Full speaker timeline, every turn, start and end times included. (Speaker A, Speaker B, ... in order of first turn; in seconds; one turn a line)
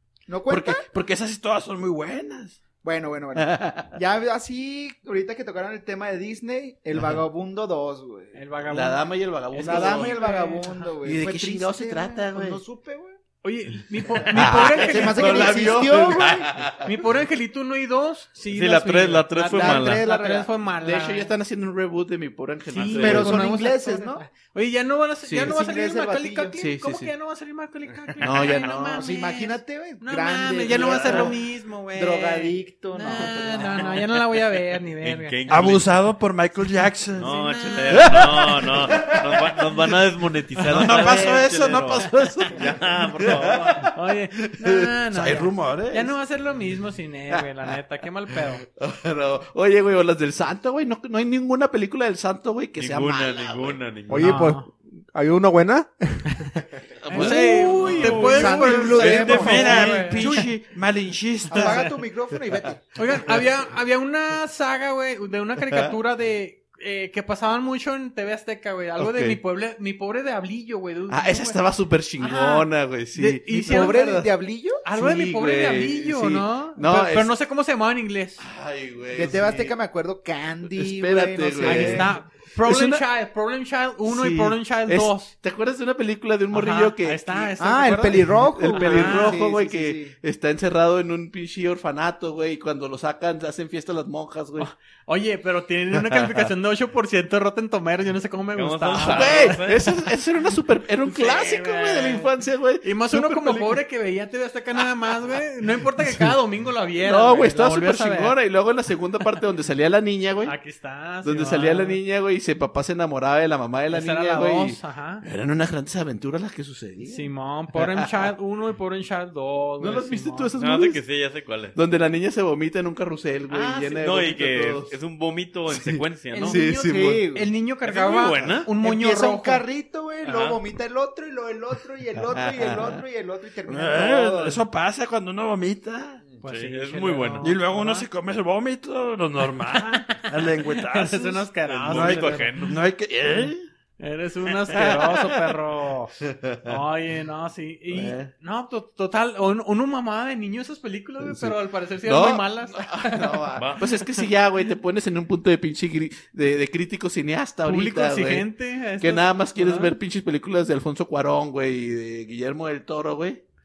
Speaker A: 0.3-0.8
Speaker B: 0.5-2.6
Speaker A: 2.8-8.4
Speaker C: 3.3-4.0
Speaker D: 8.3-10.9
Speaker C: 8.7-10.2
Speaker A: 9.6-13.2
Speaker C: 11.0-12.6
Speaker D: 13.4-16.1
Speaker C: 14.3-17.0
Speaker A: 14.3-16.7
Speaker E: 15.4-15.7
Speaker D: 16.8-21.3
Speaker E: 18.5-20.1
Speaker A: 19.5-20.5
Speaker C: 20.7-23.6
Speaker D: 22.7-35.4
Speaker E: 22.8-23.2
Speaker A: 23.0-24.2
Speaker C: 25.2-25.5
Speaker A: 25.4-26.6
Speaker C: 26.6-27.1
Speaker C: 28.2-29.0
Speaker A: 28.9-34.0
Speaker C: 30.6-31.3
Speaker E: 35.0-35.9
Speaker B: 35.5-37.4
Speaker E: 37.2-43.9
Speaker D: 37.2-38.2
Speaker C: 38.7-39.5
Speaker B: 40.6-42.1
Speaker C: 40.7-44.8
Speaker D: 43.8-48.6
Speaker B: 45.1-45.9
Speaker C: 45.3-46.1
Speaker C: 47.3-47.7
Speaker C: 48.6-53.8
Speaker E: 52.8-54.4
Speaker F: 54.1-56.7
Speaker D: 54.2-54.7
Speaker D: 56.4-60.5
Speaker C: 57.0-59.1
Speaker B: 57.2-58.0
Speaker E: 57.6-60.1
Speaker A: 58.0-60.0
Speaker B: 58.6-61.9
Speaker A: 61.5-62.8
Speaker D: 61.5-61.9
Speaker D: 63.0-71.6
Speaker C: 65.6-65.9
Speaker C: 69.0-69.4
Speaker C: 71.1-74.3
Speaker D: 72.2-74.3
Speaker A: 73.5-74.8
Speaker D: 74.8-78.4
Speaker C: 74.9-77.3
Speaker C: 78.4-79.8
Speaker A: 79.1-82.1
Speaker C: 80.6-83.0
Speaker D: 81.6-85.3
Speaker C: 84.0-87.5
Speaker D: 86.5-89.4
Speaker A: 87.6-90.2
Speaker C: 88.5-94.7
Speaker D: 94.6-99.7
Speaker C: 95.9-96.5
Speaker E: 98.5-99.8
Speaker C: 98.9-103.8
Speaker D: 101.0-102.3
Speaker D: 102.8-108.4
Speaker C: 107.0-110.6
Speaker D: 110.4-112.0
Speaker C: 111.2-118.3
Speaker D: 113.9-115.2
Speaker D: 117.0-120.5
Speaker C: 119.8-121.0
Speaker E: 120.6-121.8
Speaker C: 121.7-125.0
Speaker E: 123.5-126.6
Speaker D: 126.3-129.7
Speaker C: 126.4-127.2
Speaker A: 126.8-127.5
Speaker E: 127.8-128.7
Speaker A: 128.8-134.6
Speaker E: 130.2-130.6
Speaker C: 132.2-133.0
Speaker B: 133.7-136.2
Speaker D: 136.4-138.1
Speaker E: 136.4-137.5
Speaker B: 137.4-143.6
Speaker D: 139.6-142.7
Speaker E: 141.7-142.8
Speaker D: 144.0-154.2
Speaker C: 146.4-146.7
Speaker C: 147.9-148.3
Speaker C: 151.2-163.4
Speaker E: 153.6-153.9
Speaker D: 157.6-159.9